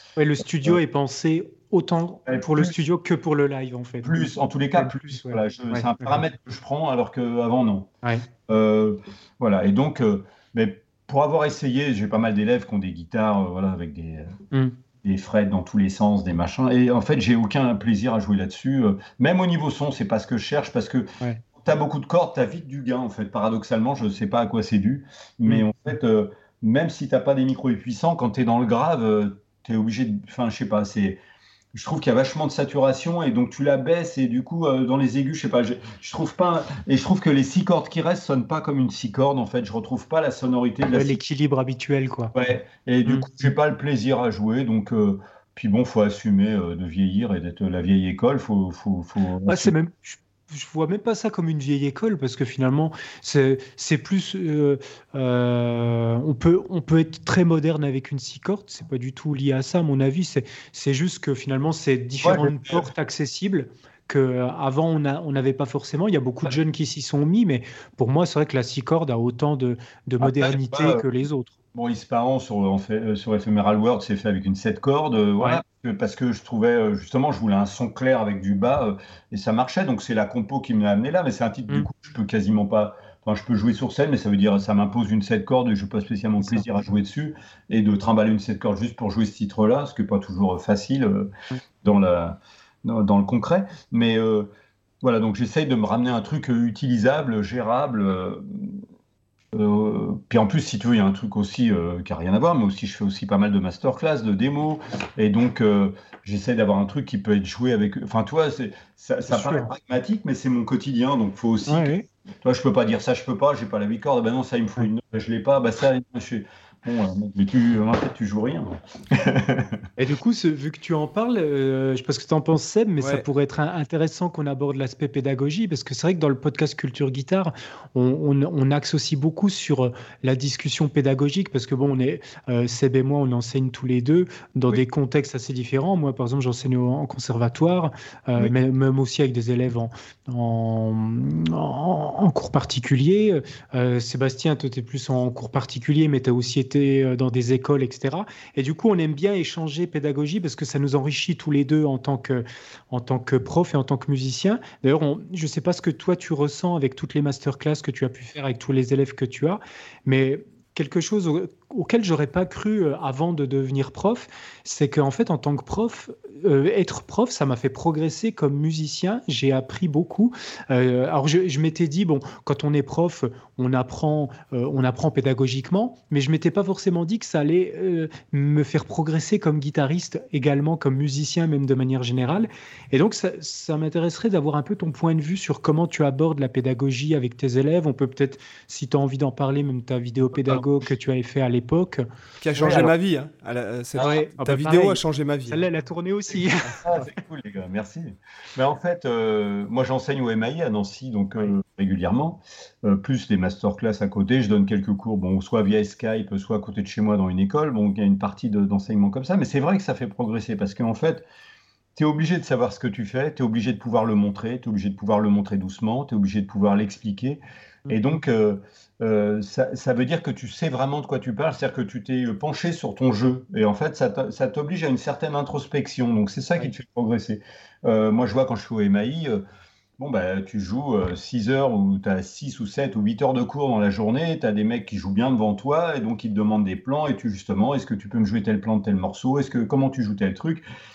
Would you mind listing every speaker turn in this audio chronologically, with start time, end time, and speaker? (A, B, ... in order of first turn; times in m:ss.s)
0:00.2-0:06.2 A
0:02.3-0:02.8 B
0:04.0-0:07.9 B
0:08.4-0:14.3 B
0:15.0-0:31.2 B
0:31.7-0:41.2 B
0:40.9-0:42.3 A
0:42.3-0:49.7 B
0:49.4-1:11.5 A
1:02.2-1:02.9 B
1:10.2-1:11.0 B
1:11.7-1:31.3 B
1:31.8-1:34.5 B
1:35.0-1:38.8 B
1:39.5-1:59.8 B
1:49.3-1:49.7 A
1:51.7-1:52.0 A
2:00.0-3:12.0 A
3:10.3-3:10.6 B
3:12.4-3:15.6 C
3:12.6-3:12.9 B
3:14.0-3:17.0 A
3:16.8-3:31.2 B
3:32.0-3:49.4 B
3:50.0-4:00.6 B